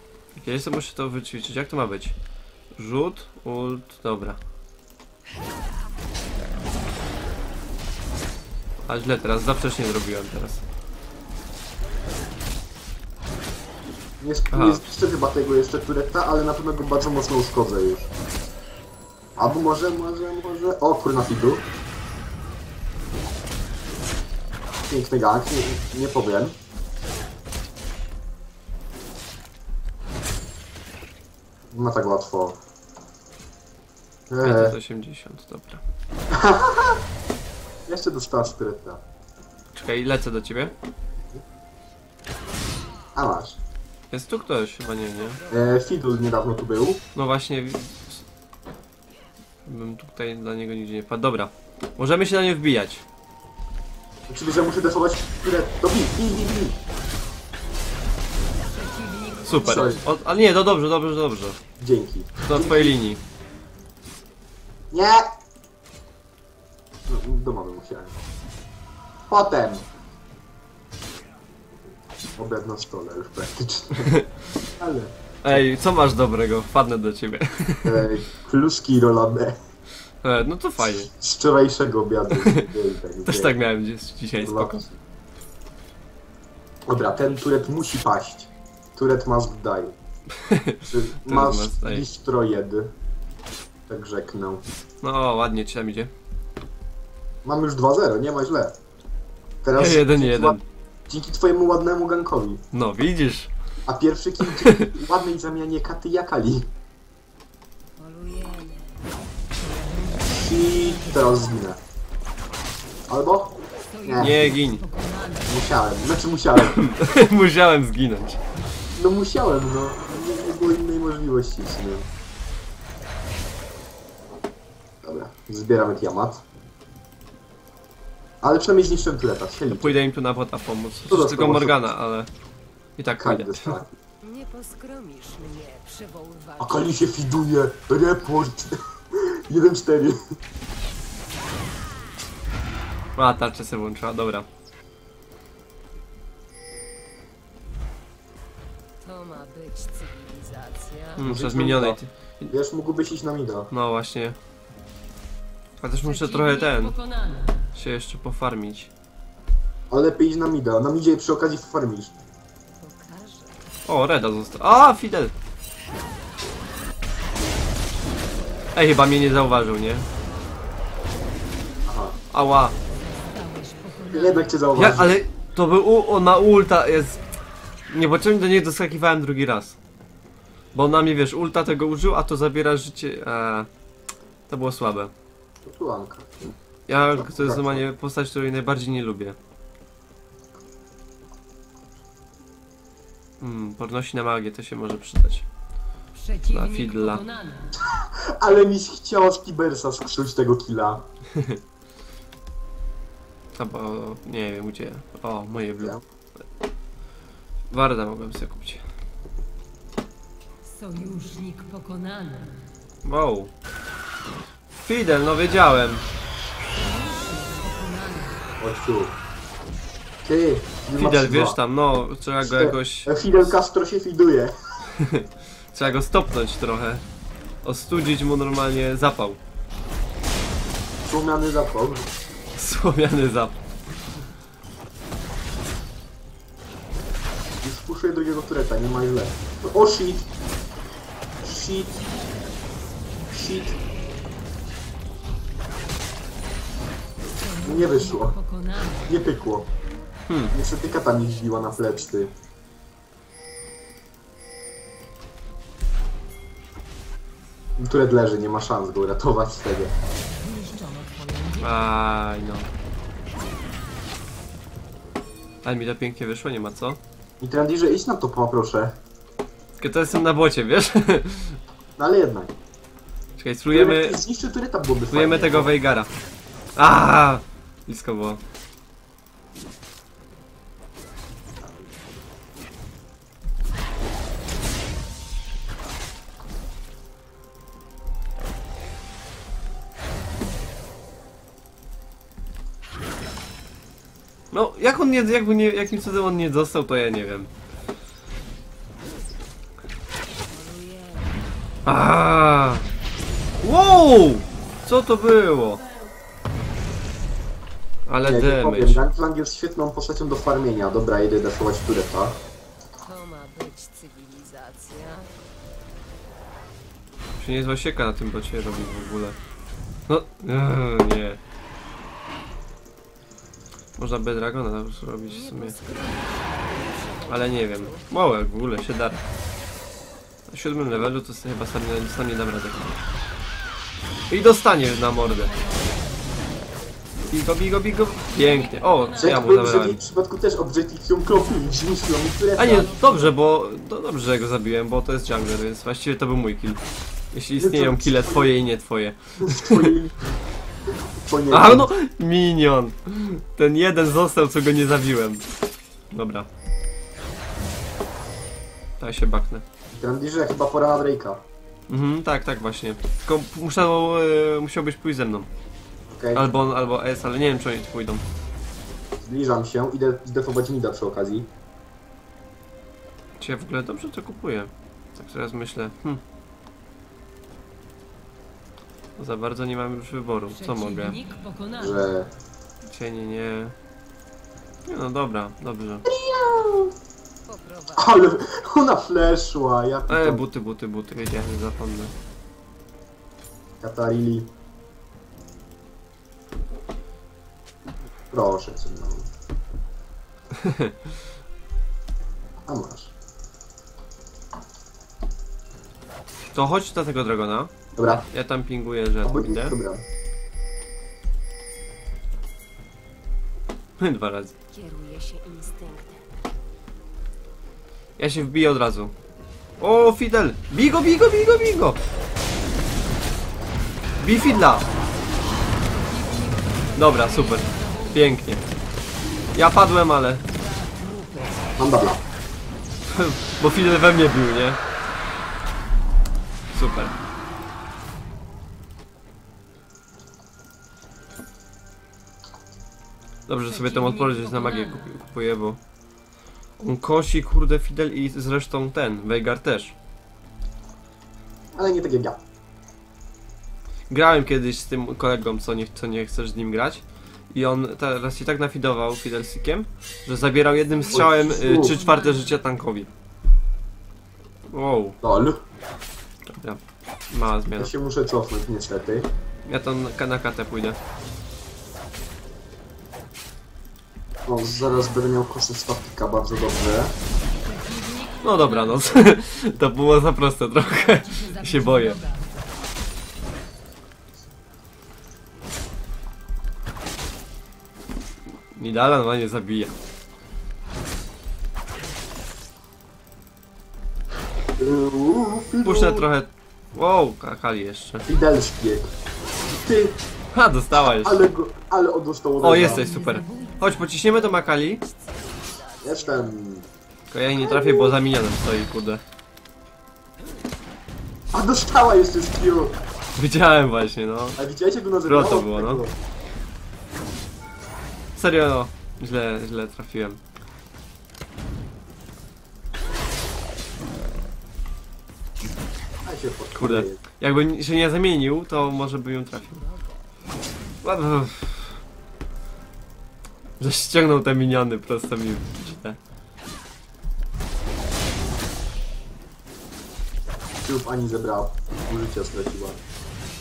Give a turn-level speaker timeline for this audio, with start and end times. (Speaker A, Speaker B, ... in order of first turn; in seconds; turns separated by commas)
Speaker A: 0.3-2.1, Speaker A: 2.7-4.4, Speaker A: 8.8-10.6, Speaker B: 14.2-18.1, Speaker A: 14.5-14.8, Speaker B: 19.4-21.7, Speaker B: 24.9-26.6, Speaker B: 31.7-32.6, Speaker B: 34.3-34.8, Speaker A: 34.4-35.8, Speaker B: 36.3-37.0, Speaker B: 37.9-39.0, Speaker A: 39.7-40.7, Speaker B: 43.1-43.6, Speaker A: 44.1-45.4, Speaker B: 45.5-47.0, Speaker A: 47.1-48.2, Speaker A: 49.6-53.0, Speaker B: 54.3-56.8, Speaker C: 58.5-60.2, Speaker A: 59.4-61.6, Speaker B: 59.6-60.0, Speaker B: 61.8-63.0, Speaker A: 62.5-63.2, Speaker B: 64.9-65.3, Speaker B: 67.1-68.2, Speaker B: 69.3-69.9, Speaker B: 72.4-74.2, Speaker A: 74.0-74.3, Speaker B: 74.8-75.6, Speaker A: 75.4-78.1, Speaker B: 77.8-79.6, Speaker A: 80.2-81.1, Speaker B: 80.8-83.5, Speaker A: 82.4-82.7, Speaker A: 83.2-84.9, Speaker B: 84.4-85.0, Speaker B: 86.9-89.9, Speaker A: 90.4-92.0, Speaker B: 90.9-92.9, Speaker B: 93.9-94.6, Speaker A: 95.0-96.1, Speaker B: 97.4-98.8, Speaker B: 99.6-102.6, Speaker A: 99.8-100.6, Speaker A: 102.7-103.5, Speaker B: 103.9-106.7, Speaker A: 104.4-104.9, Speaker C: 108.0-111.4, Speaker B: 110.2-111.8, Speaker B: 113.1-114.5, Speaker C: 113.8-115.6, Speaker A: 114.2-114.8, Speaker B: 115.5-116.8, Speaker A: 116.6-118.4, Speaker B: 118.9-122.1, Speaker B: 125.0-126.4, Speaker B: 128.4-129.9, Speaker A: 129.7-132.3, Speaker B: 131.1-131.9, Speaker A: 133.0-133.8, Speaker B: 133.2-133.9, Speaker C: 134.2-136.9, Speaker B: 136.6-140.2, Speaker A: 143.2-144.5, Speaker C: 149.0-151.2, Speaker A: 151.2-152.5, Speaker B: 151.2-152.0, Speaker B: 152.5-153.7, Speaker A: 153.7-154.4, Speaker A: 155.8-156.9, Speaker C: 156.0-157.7, Speaker A: 157.7-158.9, Speaker B: 159.9-162.1, Speaker C: 162.8-163.7, Speaker A: 163.8-165.3, Speaker A: 168.7-170.1, Speaker B: 171.8-172.2, Speaker A: 172.3-172.7, Speaker C: 172.9-174.6, Speaker B: 174.1-175.2, Speaker A: 174.7-177.2, Speaker A: 177.9-179.8, Speaker A: 180.7-183.7, Speaker A: 184.5-185.1, Speaker B: 185.6-186.5, Speaker A: 186.9-189.4, Speaker B: 187.2-187.8, Speaker A: 193.4-195.4, Speaker C: 196.1-197.7, Speaker A: 196.5-197.2, Speaker B: 197.8-201.1, Speaker A: 201.3-201.6, Speaker A: 203.5-206.0, Speaker A: 207.7-208.8, Speaker C: 210.6-212.7, Speaker A: 213.0-213.5, Speaker A: 214.8-216.0, Speaker C: 216.7-218.5, Speaker B: 218.6-219.2, Speaker B: 220.2-221.6, Speaker A: 221.0-223.2, Speaker B: 222.4-224.5, Speaker A: 224.9-227.0, Speaker A: 227.6-229.4, Speaker B: 231.0-232.1, Speaker A: 232.6-233.6, Speaker B: 237.6-240.3, Speaker B: 241.4-242.0, Speaker B: 243.3-243.8, Speaker C: 247.4-249.2, Speaker B: 247.6-248.4, Speaker B: 249.1-249.7, Speaker A: 250.3-250.6, Speaker B: 250.5-252.3, Speaker B: 257.8-259.9, Speaker C: 260.2-261.9, Speaker A: 261.6-262.7, Speaker A: 265.6-267.0, Speaker B: 267.4-269.0, Speaker A: 269.8-271.6, Speaker B: 272.0-272.5, Speaker A: 273.4-274.2, Speaker B: 273.7-275.7, Speaker A: 275.1-276.1, Speaker A: 276.8-278.4, Speaker A: 294.5-297.5, Speaker C: 300.5-301.4, Speaker A: 301.9-302.8, Speaker A: 303.6-305.8, Speaker A: 308.1-309.1, Speaker B: 308.2-312.4, Speaker C: 313.0-315.4, Speaker A: 317.4-319.4, Speaker A: 320.1-321.4, Speaker A: 324.0-325.8, Speaker C: 325.3-328.1, Speaker A: 327.3-329.2, Speaker A: 330.5-333.0, Speaker A: 334.3-335.5, Speaker C: 334.6-336.7, Speaker A: 337.3-340.0, Speaker C: 338.3-339.4, Speaker B: 339.2-343.0, Speaker A: 342.6-346.8, Speaker C: 342.6-343.3, Speaker A: 347.3-349.9, Speaker B: 347.6-348.5, Speaker B: 349.4-350.2, Speaker B: 351.2-351.9, Speaker A: 351.5-355.4, Speaker A: 356.1-356.5, Speaker A: 359.0-359.6, Speaker B: 359.9-361.4, Speaker A: 361.9-365.5, Speaker B: 366.1-366.4, Speaker A: 366.3-368.2, Speaker B: 369.2-371.5, Speaker A: 373.4-376.2, Speaker A: 379.2-381.2, Speaker C: 380.5-382.1, Speaker B: 381.8-382.3, Speaker A: 382.8-383.7, Speaker A: 384.8-386.1, Speaker B: 386.1-386.9, Speaker C: 387.4-388.4, Speaker B: 387.9-390.4, Speaker A: 390.1-392.1, Speaker B: 393.8-394.5, Speaker B: 398.3-399.3, Speaker A: 400.6-400.9, Speaker B: 402.6-403.1, Speaker A: 406.5-409.8, Speaker B: 407.9-408.2, Speaker B: 409.2-410.0, Speaker A: 414.0-414.5, Speaker C: 414.7-416.3, Speaker A: 418.2-419.1, Speaker A: 419.8-422.0, Speaker A: 424.2-424.9, Speaker C: 425.8-428.5, Speaker A: 426.9-428.7, Speaker A: 429.5-430.4, Speaker C: 430.5-431.7, Speaker B: 431.8-432.2, Speaker A: 433.1-434.8, Speaker A: 436.7-437.1, Speaker A: 443.5-445.8, Speaker C: 443.6-445.1, Speaker A: 446.8-449.9, Speaker B: 451.7-452.4, Speaker A: 454.1-463.1, Speaker C: 460.9-462.6, Speaker B: 461.1-461.9, Speaker A: 464.7-465.2, Speaker B: 465.2-465.6, Speaker A: 466.5-467.9, Speaker B: 467.7-469.3, Speaker A: 469.7-471.0, Speaker B: 474.4-477.1, Speaker C: 477.5-479.1, Speaker A: 478.4-482.2, Speaker C: 480.8-482.6, Speaker A: 488.7-489.9, Speaker B: 494.8-496.3, Speaker A: 495.8-498.3, Speaker B: 498.2-499.1, Speaker B: 499.7-500.2, Speaker A: 500.5-501.4, Speaker B: 501.0-503.1, Speaker A: 502.6-505.0, Speaker C: 502.7-506.6, Speaker B: 506.0-506.9, Speaker A: 507.3-509.2, Speaker B: 507.5-508.1, Speaker B: 511.5-513.0, Speaker A: 513.3-514.6, Speaker B: 514.6-516.2, Speaker A: 515.2-516.0, Speaker A: 518.4-520.4, Speaker B: 526.2-527.2, Speaker A: 526.7-529.8, Speaker C: 529.1-530.3, Speaker A: 531.0-532.0, Speaker A: 533.8-536.2, Speaker B: 540.8-543.0